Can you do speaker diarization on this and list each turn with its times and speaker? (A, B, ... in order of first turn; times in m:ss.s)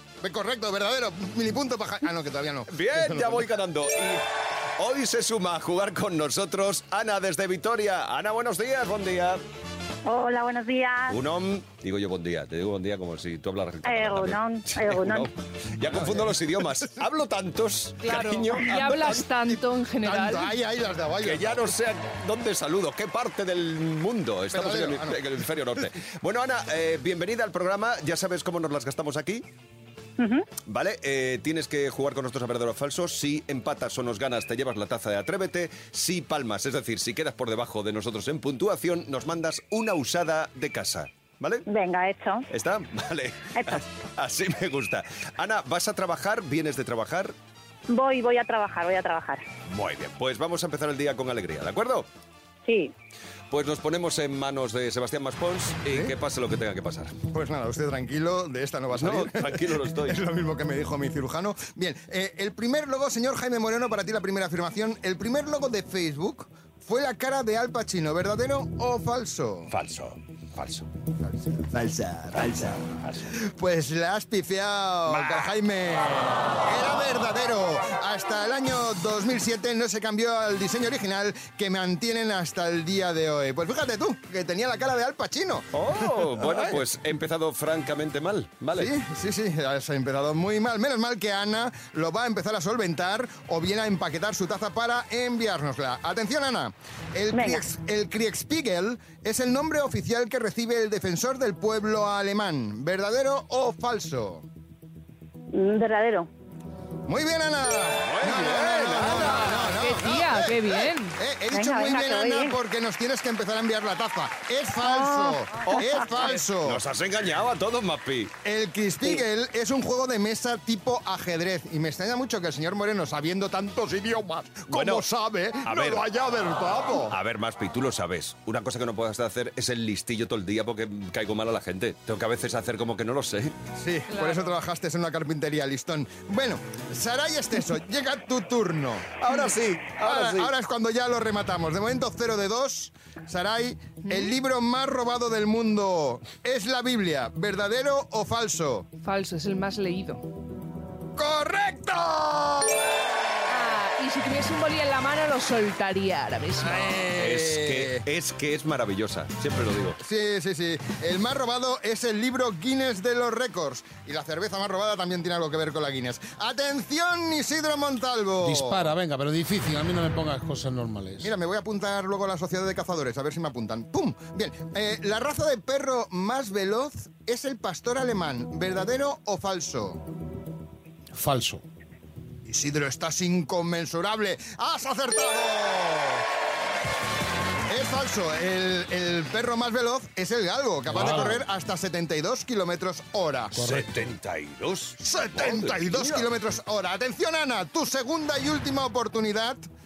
0:00.2-0:03.5 A
0:02.7-0:04.2 B
0:04.8-0:09.4 B
0:10.1-0:11.2 C
0:11.1-0:19.3 B
0:13.8-0:15.3 C
0:15.9-0:16.4 A
0:18.0-0:20.5 D
0:18.1-0:18.6 A
0:20.0-0:21.7 A
0:21.2-0:29.4 B
0:24.5-0:25.2 A
0:30.2-0:30.5 C
0:30.7-0:41.6 B
0:41.7-0:42.4 C
0:42.5-0:47.3 B
0:47.9-0:49.4 C
0:49.7-0:52.1 B
0:52.6-0:52.9 C
0:53.5-0:57.1 B
0:55.9-0:56.1 A
0:57.3-1:09.7 A
0:58.9-1:00.2 B
1:09.7-1:10.9 B
1:11.2-1:12.8 A
1:12.3-1:13.3 B
1:13.3-1:26.8 A
1:15.1-1:15.5 B
1:25.7-1:28.9 B
1:28.8-1:44.4 A
1:37.3-1:37.6 C
1:45.5-1:46.3 C
1:47.1-1:56.8 A
1:48.0-1:49.6 B
1:49.4-1:51.2 D
1:51.5-1:52.6 C
1:54.9-1:55.3 C
1:56.6-1:58.3 B
1:58.4-2:07.1 A
2:04.7-2:05.1 B
2:05.6-2:06.0 B
2:07.1-2:13.5 B
2:13.8-2:19.2 A
2:14.1-2:14.6 D
2:19.2-2:20.5 B
2:20.0-2:28.9 A
2:24.1-2:24.3 D
2:29.0-2:30.2 D
2:31.2-2:33.1 A
2:33.5-2:37.1 D
2:36.6-2:38.0 A
2:37.2-2:40.0 B
2:40.0-2:48.9 A
2:48.4-2:51.3 E
2:51.2-3:00.0 A
3:01.1-3:01.6 E
3:02.5-3:06.2 A
3:07.7-3:13.8 A
3:11.0-3:11.3 E
3:13.6-3:16.3 B
3:13.6-3:13.9 E
3:15.0-3:19.6 A